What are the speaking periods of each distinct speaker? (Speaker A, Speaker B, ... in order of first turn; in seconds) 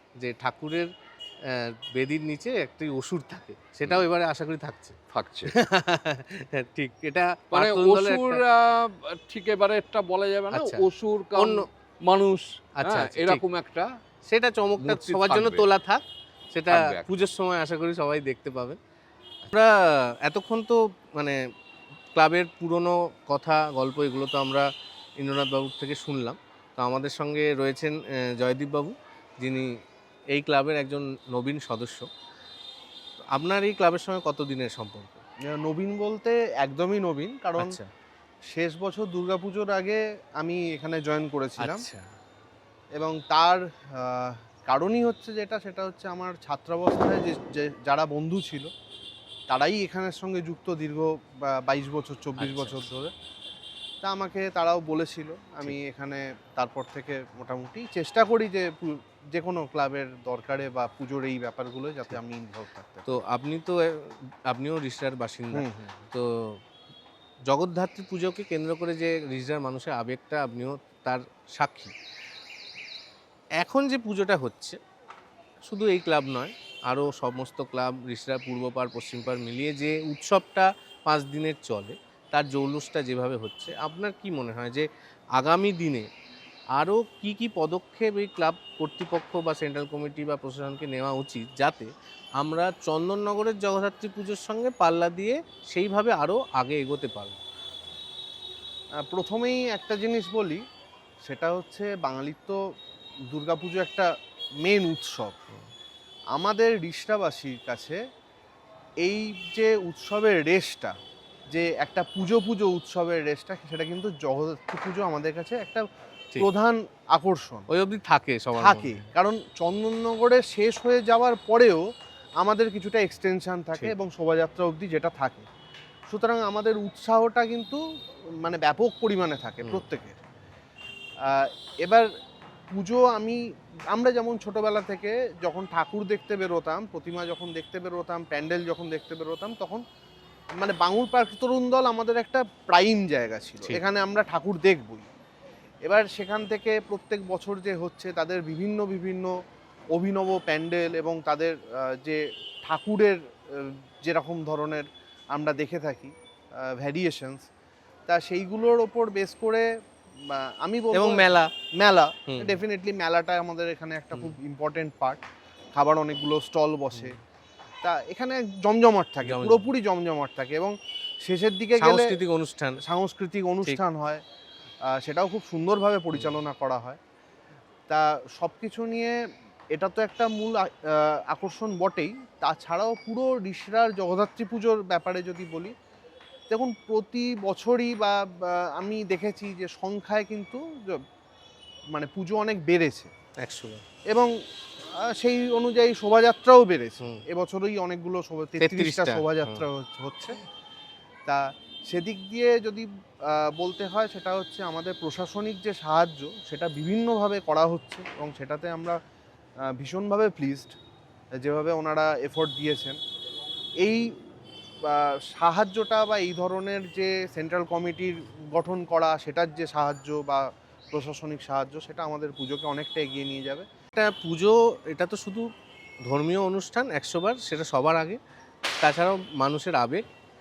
Speaker A: 0.2-0.9, 1.4-5.0, 5.5-8.4, 10.5-11.6, 12.8-13.4, 14.2-18.8, 19.4-21.4, 22.1-29.8, 30.3-32.1, 33.3-35.2, 37.6-37.9, 41.6-42.1, 52.4-52.9, 63.0-66.6, 67.5-71.9, 73.6-74.8, 75.6-86.1, 86.7-97.4, 117.7-119.1, 160.9-161.5, 162.3-162.6, 169.2-169.7, 171.8-172.8, 193.4-193.8, 198.6-199.7, 223.9-225.5, 226.0-228.2, 228.8-230.0
Speaker B: 5.1-5.5, 7.5-13.9, 14.8-15.6, 16.7-17.1
Speaker C: 35.4-37.8, 38.5-41.9, 43.0-48.7, 49.5-53.1, 54.0-63.2, 65.5-65.9, 99.0-100.6, 101.2-102.6, 103.3-105.4, 106.3-108.0, 109.0-111.0, 111.5-115.9, 116.4-117.7, 118.6-121.8, 122.4-125.5, 126.1-127.8, 128.3-130.2, 131.2-132.1, 132.7-139.8, 140.6-145.1, 145.8-149.3, 149.9-157.4, 158.1-167.2, 167.8-172.2, 172.8-174.2, 174.9-177.0, 177.9-179.2, 179.7-185.7, 186.5-191.0, 191.9-193.1, 194.1-200.4, 201.2-209.0, 209.6-210.8, 211.4-213.0, 213.8-214.2, 214.8-223.7